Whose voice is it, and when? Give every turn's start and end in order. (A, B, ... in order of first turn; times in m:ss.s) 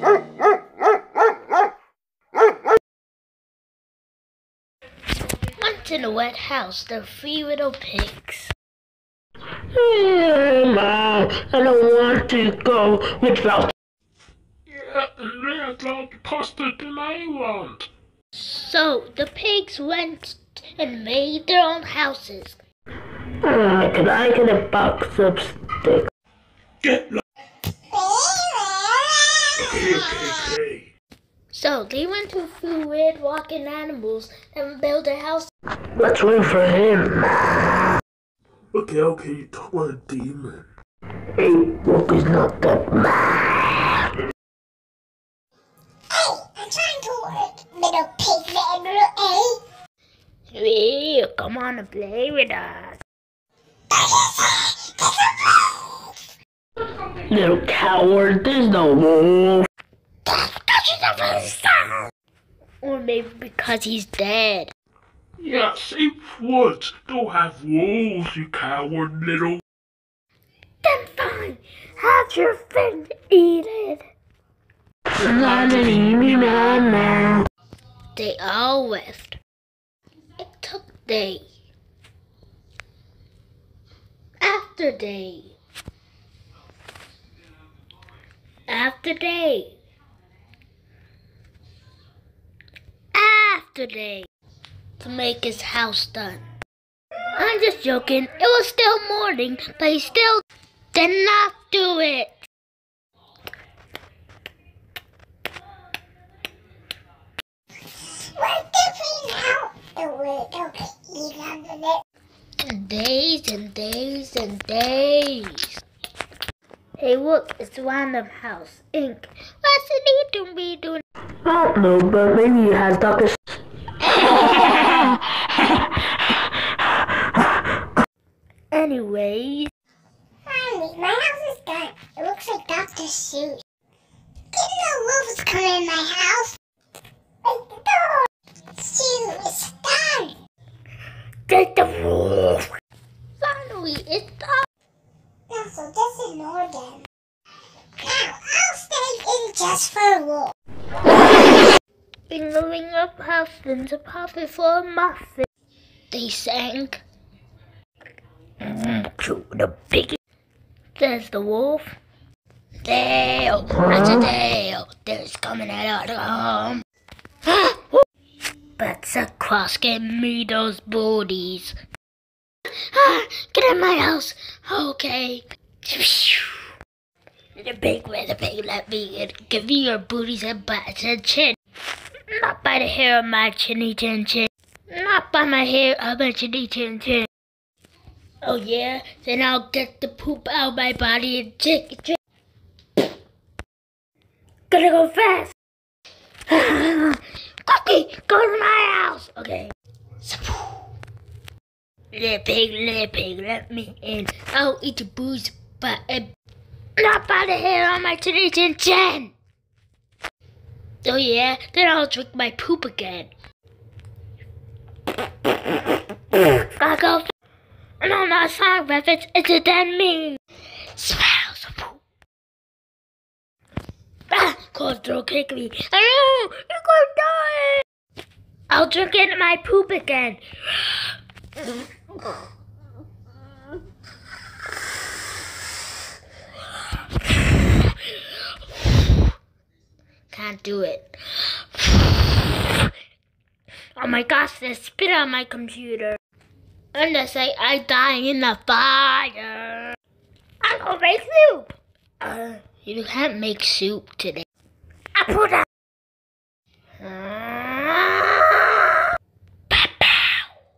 0:05.5-0:08.5 A
0:09.7-0:13.7 B
0:14.7-0:17.9 C
0:18.3-0:22.6 A
0:23.4-0:26.1 B
0:26.8-0:27.2 C
0:27.9-0:29.8 D
0:29.6-0:30.9 C
0:31.5-0:35.5 A
0:36.0-0:38.0 B
0:38.7-0:40.6 C
0:41.4-0:44.0 B
0:46.1-0:49.6 D
0:50.5-0:53.0 A
0:53.9-0:56.1 D
0:57.3-0:59.7 B
1:00.2-1:02.1 A
1:02.8-1:04.7 A
1:05.4-1:09.6 C
1:10.8-1:14.0 A
1:15.2-1:17.4 B
1:15.7-1:16.2 C
1:18.1-1:19.4 A
1:20.4-1:21.4 A
1:24.4-1:25.5 A
1:28.7-1:29.7 A
1:33.1-1:34.3 A
1:35.0-1:36.4 A
1:37.3-1:42.4 A
1:48.0-1:52.0 D
1:52.6-1:55.8 A
1:57.0-2:01.0 A
2:01.4-2:03.6 B
2:04.2-2:05.0 A
2:04.6-2:05.1 B
2:08.7-2:09.7 A
2:10.4-2:13.6 D
2:14.5-2:16.6 D
2:17.4-2:20.4 D
2:21.5-2:22.7 A
2:23.4-2:24.6 A
2:25.5-2:27.0 D
2:28.0-2:30.5 D
2:32.3-2:35.4 A
2:36.1-2:37.0 A
2:38.6-2:40.2 A
2:40.9-2:42.0 A
2:42.8-2:46.8 A
2:47.4-2:48.0 A
2:48.8-2:51.8 A
2:52.6-2:56.7 A
2:57.5-3:01.6 A
3:02.3-3:07.3 A
3:08.4-3:12.2 A
3:14.7-3:15.5 A
3:16.5-3:20.8 A
3:22.1-3:26.3 A
3:27.0-3:29.3 A
3:31.0-3:33.3 A
3:36.3-3:37.3 A
3:38.0-3:42.0 A
3:44.3-3:47.8 A
3:48.7-3:50.9 A
3:57.3-3:57.9 A
3:58.8-3:59.2 A
4:00.3-4:02.9 A
4:03.9-4:06.2 A
4:06.9-4:10.0 A
4:10.6-4:14.4 A
4:15.1-4:15.6 A
4:17.0-4:19.1 A
4:19.7-4:20.5 A